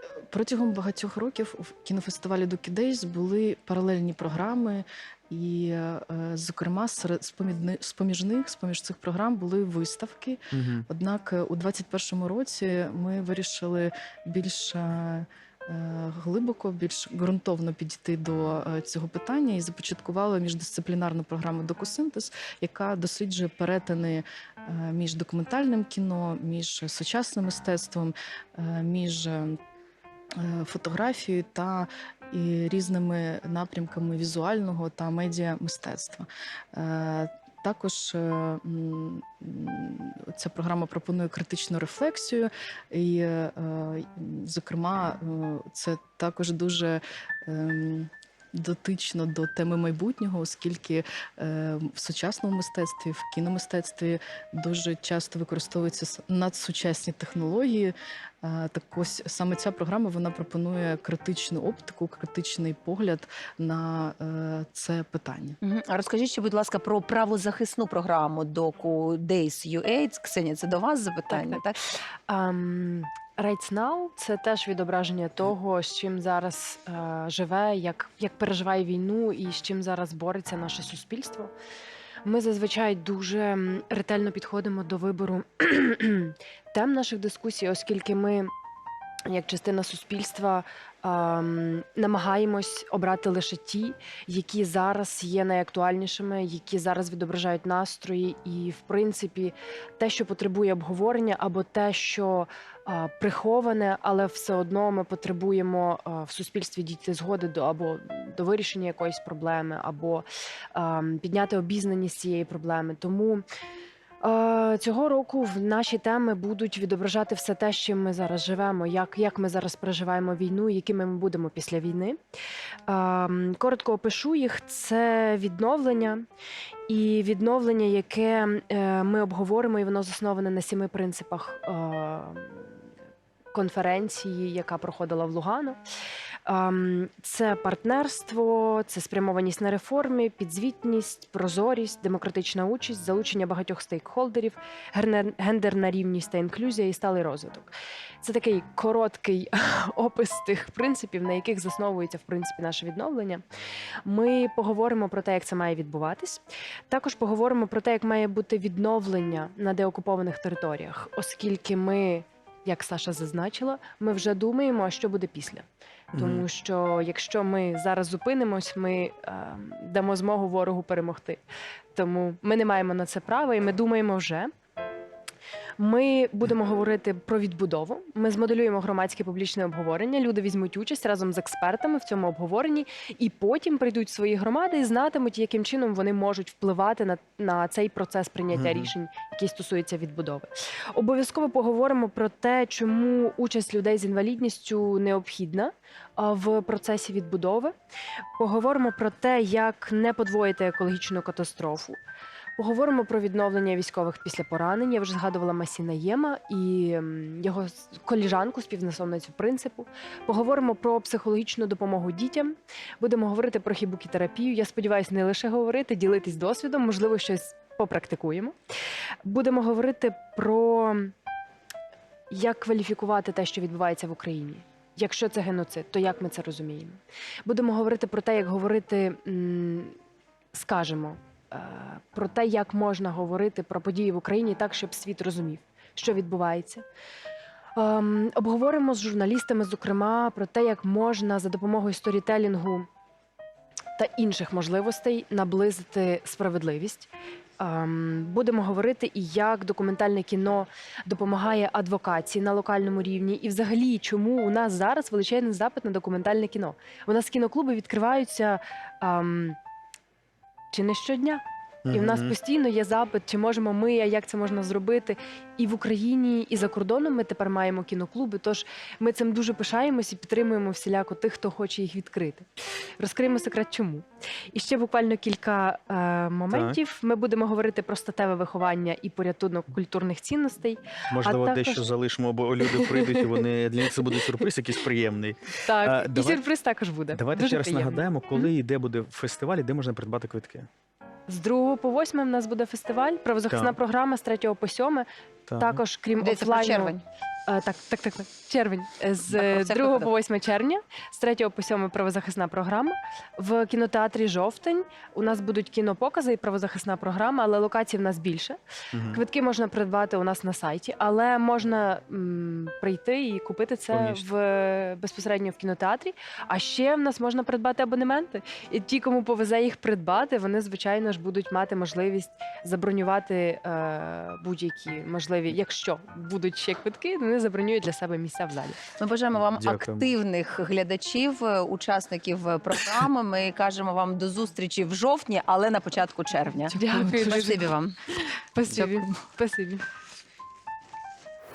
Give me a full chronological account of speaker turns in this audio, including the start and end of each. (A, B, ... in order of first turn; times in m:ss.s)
0:00.3-0:29.6 A
0:10.5-0:10.9 B
0:30.4-1:05.6 A
1:05.6-1:11.9 C
1:11.3-1:11.6 D
1:12.3-1:21.5 D
1:22.2-1:28.5 D
1:29.3-1:53.4 D
1:54.2-2:02.2 D
2:02.9-2:06.2 D
2:06.9-2:12.7 D
2:13.5-2:15.8 D
2:16.5-2:33.4 D
2:34.0-2:51.4 D
2:46.1-2:46.4 B
2:51.9-2:54.5 D
2:55.8-3:17.7 D
3:08.5-3:08.9 B
3:18.4-3:22.0 D
3:22.6-3:38.6 D
3:39.2-3:41.1 D
3:42.3-3:50.0 D
3:50.5-3:56.8 D
3:57.8-4:02.9 D
4:04.0-4:19.6 D
4:20.7-4:32.5 D
4:21.9-4:22.3 B
4:33.0-4:41.9 D
4:36.5-4:36.8 B
4:41.1-4:46.4 B
4:42.6-4:43.3 D
4:45.6-4:48.5 D
4:47.1-4:50.7 B
4:51.3-4:57.0 D
4:53.5-4:53.8 B
4:55.5-4:55.8 B
4:56.2-4:57.0 C
4:57.5-5:08.6 D
4:59.3-5:00.1 C
5:08.9-5:09.2 B
5:09.1-5:28.8 D
5:13.9-5:14.2 B
5:29.0-5:38.0 C
5:29.3-5:30.1 B
5:36.7-5:37.7 D
5:36.7-5:37.3 A
5:38.5-5:39.8 D
5:38.7-5:39.1 A